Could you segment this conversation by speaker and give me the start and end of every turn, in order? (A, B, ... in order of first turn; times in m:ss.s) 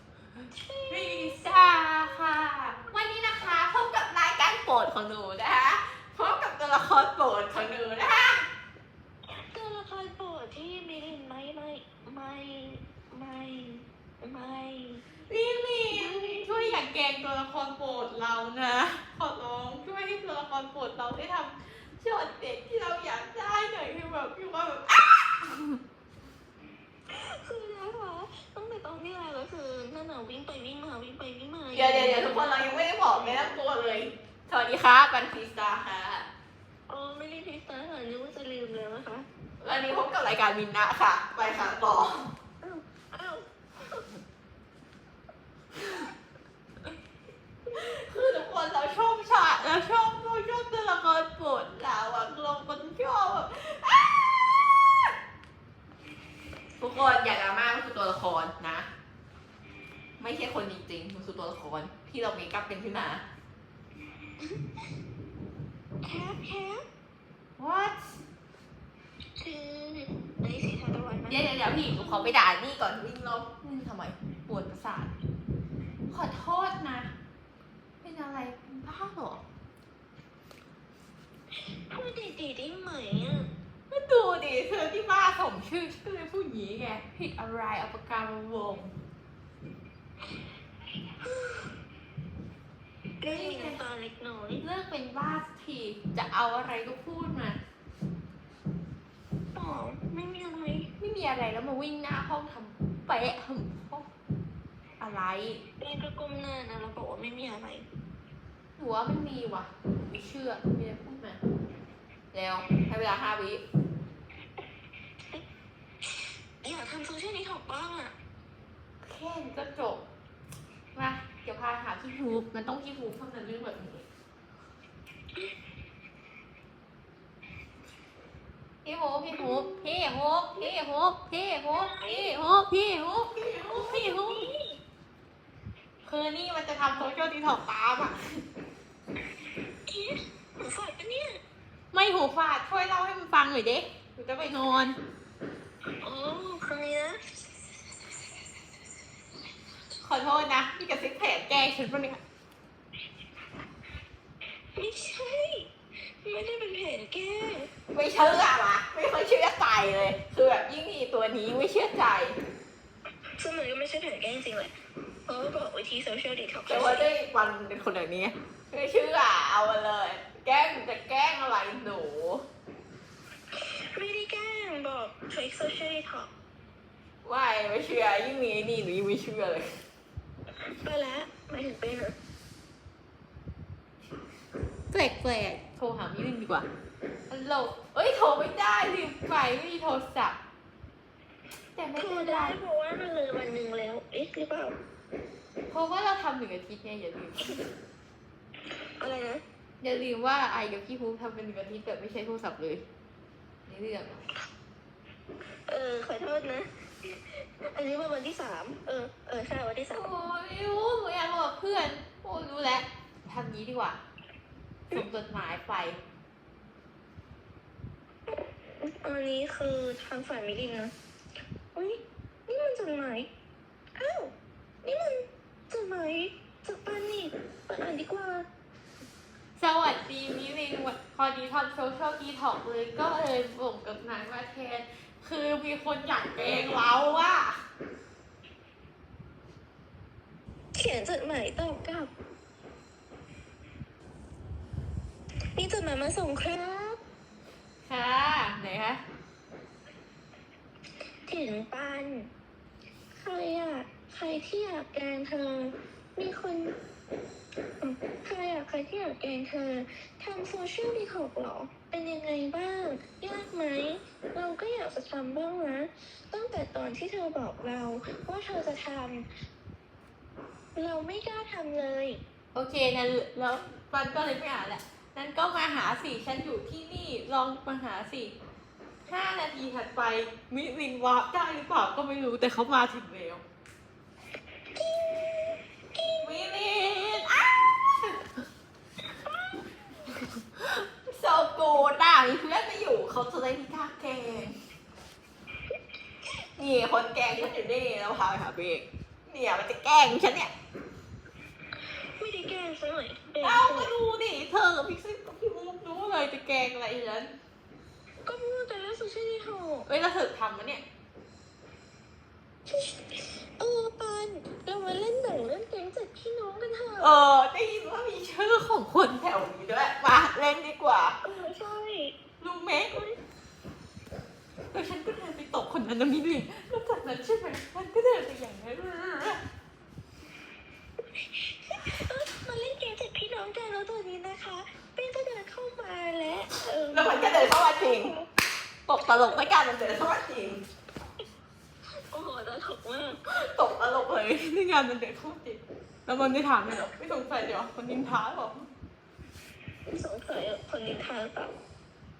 0:00.5-0:02.2 A
0:00.9-0:08.4 B
0:09.3-0:15.0 A
0:15.3-0:25.8 B
0:15.9-0:16.8 A
0:27.1-0:33.5 A
0:31.7-0:36.3 B
0:36.9-0:39.3 A
0:39.6-0:42.3 B
0:42.6-0:44.1 A
0:47.7-0:48.3 A
0:47.7-0:55.1 B
0:56.8-0:58.9 B
1:00.2-1:03.2 B
1:06.0-1:06.8 A
1:07.6-1:08.2 B
1:09.4-1:12.3 A
1:11.3-1:15.1 B
1:16.1-1:17.1 B
1:18.0-1:19.4 B
1:21.7-1:23.5 A
1:23.9-1:28.9 B
1:31.2-1:31.7 A
1:33.2-1:34.6 A
1:33.3-1:33.8 B
1:34.6-1:37.6 B
1:39.5-1:40.9 A
1:41.0-1:44.0 B
1:45.0-1:45.6 B
1:45.8-1:47.9 A
1:48.8-1:51.4 B
1:52.3-1:53.6 B
1:56.1-1:58.1 A
1:59.0-2:00.0 B
2:00.9-2:04.0 B
2:08.8-2:14.5 B
2:09.3-2:09.8 A
2:11.7-2:12.3 A
2:13.7-2:14.8 A
2:16.0-2:18.4 B
2:19.9-2:21.4 A
2:21.9-2:25.0 B
2:26.0-2:27.4 A
2:30.0-2:32.2 B
2:34.7-2:37.7 A
2:37.9-2:42.4 B
2:43.4-2:44.7 A
2:45.3-2:47.1 A
2:46.7-2:52.4 B
2:53.6-2:56.3 A
2:57.2-2:59.8 B
3:00.6-3:02.2 A
3:04.9-3:06.7 B
3:07.3-3:10.4 B
3:11.7-3:12.6 B
3:12.0-3:14.8 A
3:15.7-3:17.6 B
3:18.8-3:19.4 A
3:19.8-3:22.8 B
3:23.7-3:24.2 B
3:25.7-3:30.0 A
3:29.9-3:34.0 B
3:34.9-3:36.0 B
3:38.8-3:40.9 A
3:41.7-3:43.3 A
3:44.0-3:48.5 A
3:49.6-3:57.6 B
4:00.7-4:02.1 A
4:05.6-4:07.0 A
4:07.8-4:09.0 B
4:11.3-4:12.3 A
4:13.2-4:16.8 A
4:17.8-4:29.2 A
4:30.7-4:32.2 A
4:32.5-4:38.4 B
4:39.1-4:43.4 B
4:44.7-4:46.4 A
4:46.2-4:48.3 B
4:49.1-4:50.2 A
4:50.6-4:54.5 B
4:56.6-5:00.5 B
5:02.1-5:03.9 A
5:03.4-5:07.3 B
5:08.2-5:09.9 A
5:09.9-5:10.8 B
5:12.7-5:17.1 A
5:17.0-5:21.2 B
5:21.2-5:22.2 A
5:22.4-5:23.0 B
5:24.7-5:29.4 B
5:31.1-5:38.3 A
5:36.9-5:38.1 B
5:38.9-5:40.6 B
5:39.1-5:39.4 A
5:42.1-5:43.2 A
5:43.3-5:48.7 B
5:49.9-5:51.5 A